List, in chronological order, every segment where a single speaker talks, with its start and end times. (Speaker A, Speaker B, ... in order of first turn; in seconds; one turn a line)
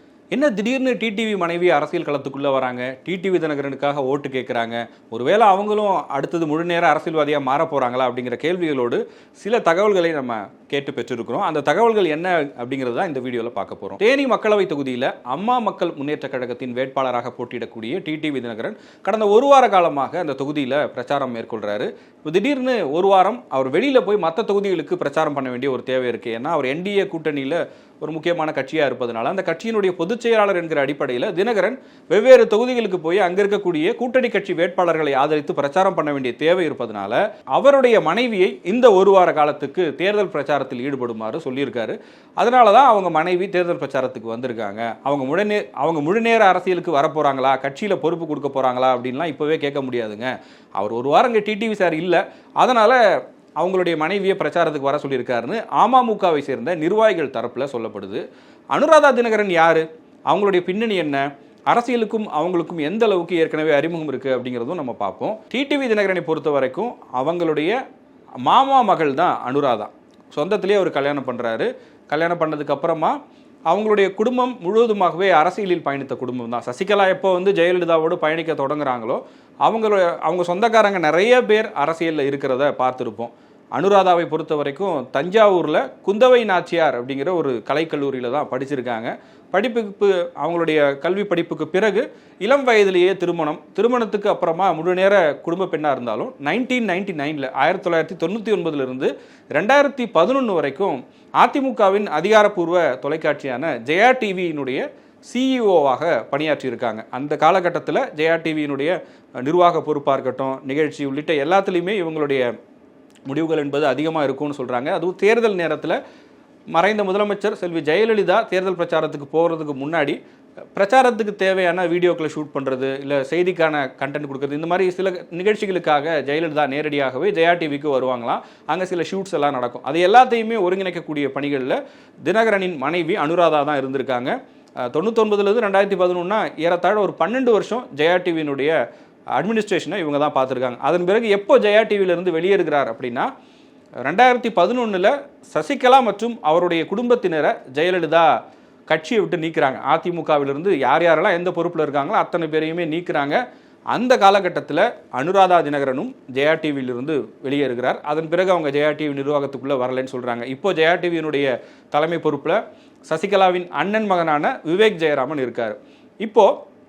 Speaker A: 0.3-53.0
Speaker A: 53.6-58.2
Speaker A: 58.7-67.8
Speaker A: 68.4-73.2
Speaker A: 73.7-112.5
Speaker A: 113.3-116.0
Speaker A: 116.7-120.2
Speaker A: 120.8-134.4
Speaker A: 134.9-138.8
Speaker A: 139.4-143.3
Speaker A: 144.0-148.3
Speaker A: 148.9-153.4
Speaker A: 153.9-166.5